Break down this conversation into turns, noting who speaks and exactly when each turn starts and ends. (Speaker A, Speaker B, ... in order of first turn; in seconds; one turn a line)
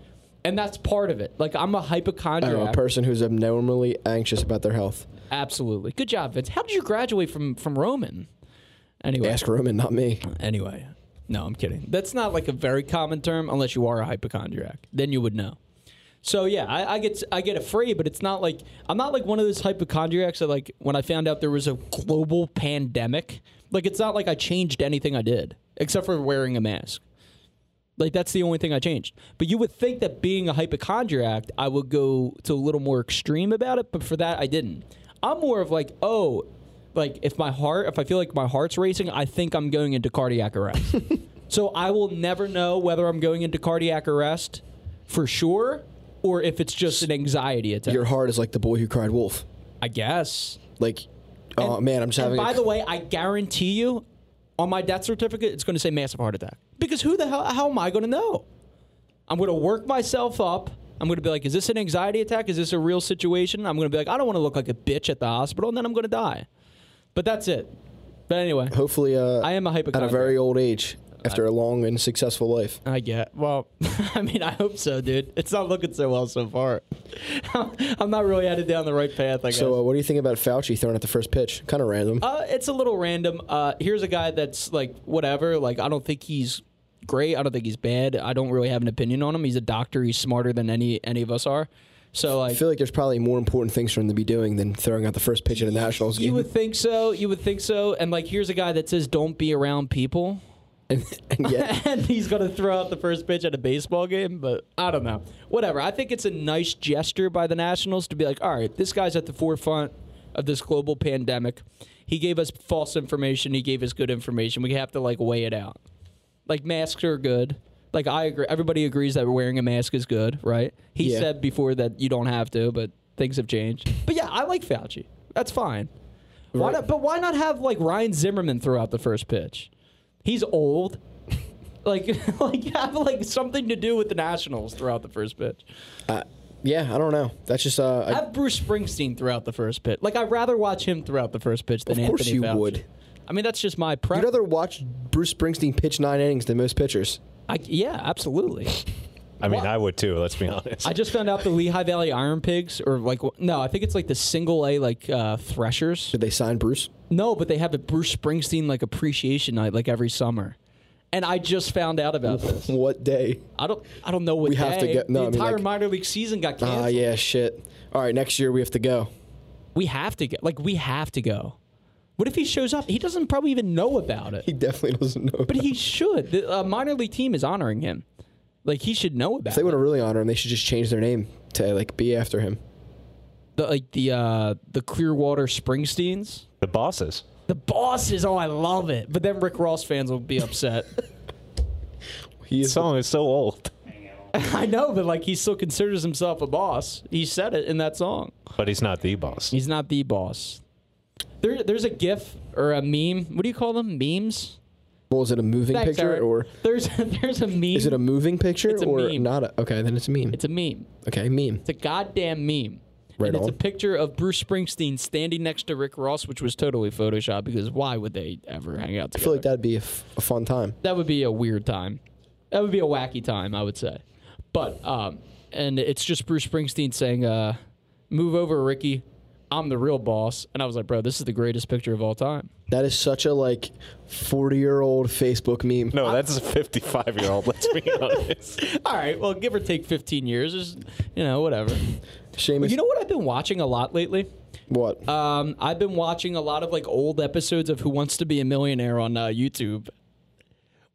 Speaker A: 0.4-2.8
Speaker B: 2.4-5.1
Speaker A: 5.3-8.3
Speaker A: 9.0-9.4
Speaker B: 9.2-10.2
Speaker A: 10.2-15.6
Speaker A: 16.2-27.0
Speaker A: 28.0-48.0
Speaker B: 47.9-49.4
Speaker A: 49.8-50.6
Speaker B: 50.8-52.6
Speaker A: 51.6-54.0
Speaker A: 54.6-58.4
Speaker A: 59.3-66.5
Speaker A: 67.1-67.7
Speaker A: 68.3-68.8
Speaker B: 68.7-72.8
Speaker A: 69.4-70.4
Speaker A: 72.8-79.7
Speaker B: 79.5-82.2
Speaker A: 82.2-92.6
Speaker B: 92.5-96.5
Speaker A: 95.8-100.4
Speaker B: 100.9-101.7
Speaker A: 101.4-115.8
Speaker A: 116.5-125.9
Speaker B: 121.0-121.3
Speaker A: 126.5-129.7
Speaker A: 130.2-131.0
Speaker A: 131.8-135.6
Speaker B: 136.1-138.2
Speaker A: 138.1-144.3
Speaker B: 141.9-142.8
Speaker B: 144.1-147.2
Speaker A: 147.5-148.8
Speaker C: 149.4-151.1
Speaker A: 149.4-149.7
Speaker A: 150.8-156.2
Speaker B: 156.1-156.9
Speaker A: 157.1-160.6
Speaker A: 161.1-162.7
Speaker B: 162.2-163.4
Speaker A: 163.6-167.1
Speaker B: 164.4-165.7
Speaker B: 166.6-169.1
Speaker A: 169.7-171.6
Speaker A: 172.2-174.4
Speaker B: 174.4-175.7
Speaker A: 175.5-178.0
Speaker A: 178.6-179.8
Speaker B: 179.5-182.6
Speaker A: 183.6-186.4
Speaker C: 186.6-187.2
Speaker A: 187.5-190.9
Speaker B: 192.4-192.9
Speaker C: 192.6-193.7
Speaker A: 194.3-198.3
Speaker C: 198.6-199.5
Speaker A: 199.5-200.6
Speaker A: 201.4-204.6
Speaker B: 205.1-206.5
Speaker A: 205.7-208.0
Speaker B: 207.7-210.4
Speaker A: 208.7-209.3
Speaker A: 210.3-210.9
Speaker B: 211.0-211.6
Speaker A: 211.6-219.5
Speaker B: 213.2-213.6
Speaker B: 219.1-220.8
Speaker A: 220.8-222.0
Speaker A: 222.5-224.0
Speaker A: 224.5-227.6
Speaker A: 228.1-232.5
Speaker B: 232.7-236.0
Speaker C: 235.9-238.6
Speaker A: 237.9-241.8
Speaker B: 242.3-242.8
Speaker A: 242.6-244.3
Speaker B: 244.7-245.0
Speaker A: 245.1-249.9